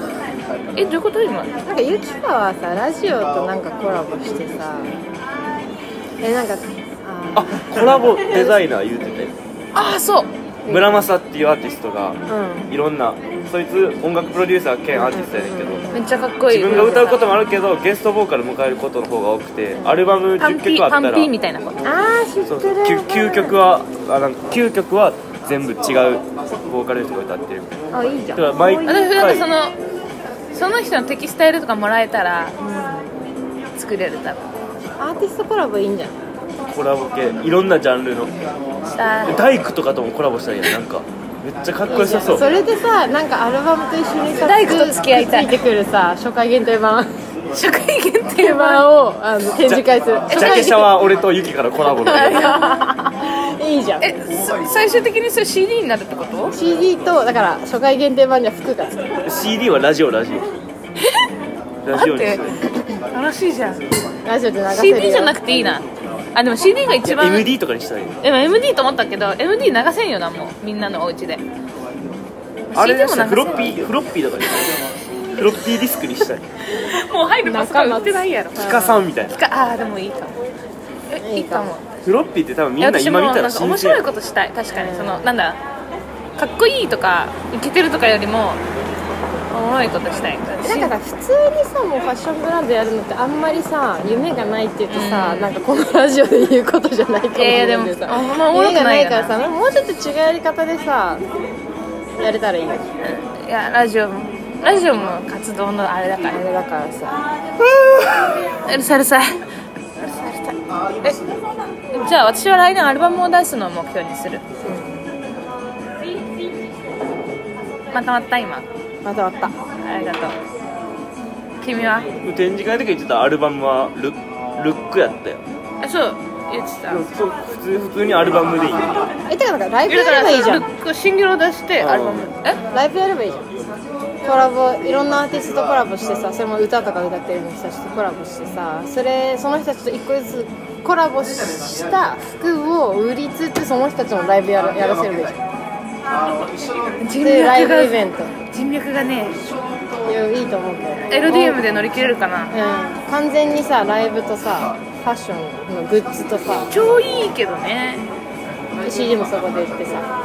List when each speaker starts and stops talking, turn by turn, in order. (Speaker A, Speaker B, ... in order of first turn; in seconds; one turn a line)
Speaker A: 0.7-1.5
Speaker B: 1.6-4.9
Speaker B: 6.2-8.6
Speaker C: 7.3-9.3
Speaker A: 9.7-10.3
Speaker B: 10.7-11.1
Speaker C: 10.7-15.9
Speaker B: 12.3-12.7
Speaker B: 14.9-16.1
Speaker A: 15.9-17.3
Speaker C: 16.5-21.3
Speaker B: 16.7-17.2
Speaker B: 19.8-20.0
Speaker A: 20.4-21.9
Speaker B: 21.8-23.6
Speaker C: 22.4-27.8
Speaker B: 27.9-29.1
Speaker C: 28.3-29.4
Speaker A: 28.8-29.7
Speaker A: 30.5-32.5
Speaker B: 32.6-33.1
Speaker A: 33.8-34.5
Speaker B: 35.0-36.2
Speaker C: 36.7-38.3
Speaker A: 38.9-39.4
Speaker C: 39.2-42.6
Speaker B: 41.9-47.2
Speaker A: 44.4-45.6
Speaker A: 47.5-48.9
Speaker B: 48.3-51.0
Speaker C: 49.6-52.5
Speaker A: 50.3-50.9
Speaker B: 51.9-54.2
Speaker A: 52.0-52.8
Speaker A: 54.0-56.5
Speaker B: 56.5-59.2
Speaker C: 59.2-60.5
Speaker C: 61.8-62.5
Speaker A: 61.9-63.8
Speaker B: 64.2-65.5
Speaker A: 64.7-67.5
Speaker C: 67.1-68.2
Speaker A: 68.2-71.4
Speaker A: 72.7-73.7
Speaker C: 72.7-76.4
Speaker A: 76.7-78.6
Speaker B: 77.4-79.0
Speaker C: 78.6-79.4
Speaker A: 79.3-80.3
Speaker A: 81.1-81.9
Speaker B: 81.2-81.7
Speaker C: 82.0-84.0
Speaker A: 82.8-85.6
Speaker B: 84.7-85.3
Speaker A: 86.4-88.6
Speaker A: 89.5-90.9
Speaker B: 90.6-101.2
Speaker A: 94.9-95.5
Speaker A: 97.3-99.3
Speaker B: 102.2-102.8
Speaker A: 103.0-106.4
Speaker B: 106.3-107.2
Speaker A: 108.6-109.3
Speaker B: 110.0-110.5
Speaker A: 111.9-114.4
Speaker B: 114.6-115.0
Speaker A: 117.9-118.7
Speaker B: 119.0-119.5
Speaker A: 119.8-120.3
Speaker A: 121.6-122.1
Speaker C: 122.2-125.4
Speaker A: 125.8-127.0
Speaker C: 126.9-129.0
Speaker B: 129.3-130.7
Speaker A: 129.9-132.6
Speaker C: 131.8-132.3
Speaker B: 132.7-133.5
Speaker B: 134.2-145.4
Speaker A: 147.0-149.4
Speaker B: 147.2-148.3
Speaker B: 150.0-151.6
Speaker A: 151.1-152.6
Speaker B: 152.5-156.7
Speaker A: 156.7-158.1
Speaker B: 158.8-160.1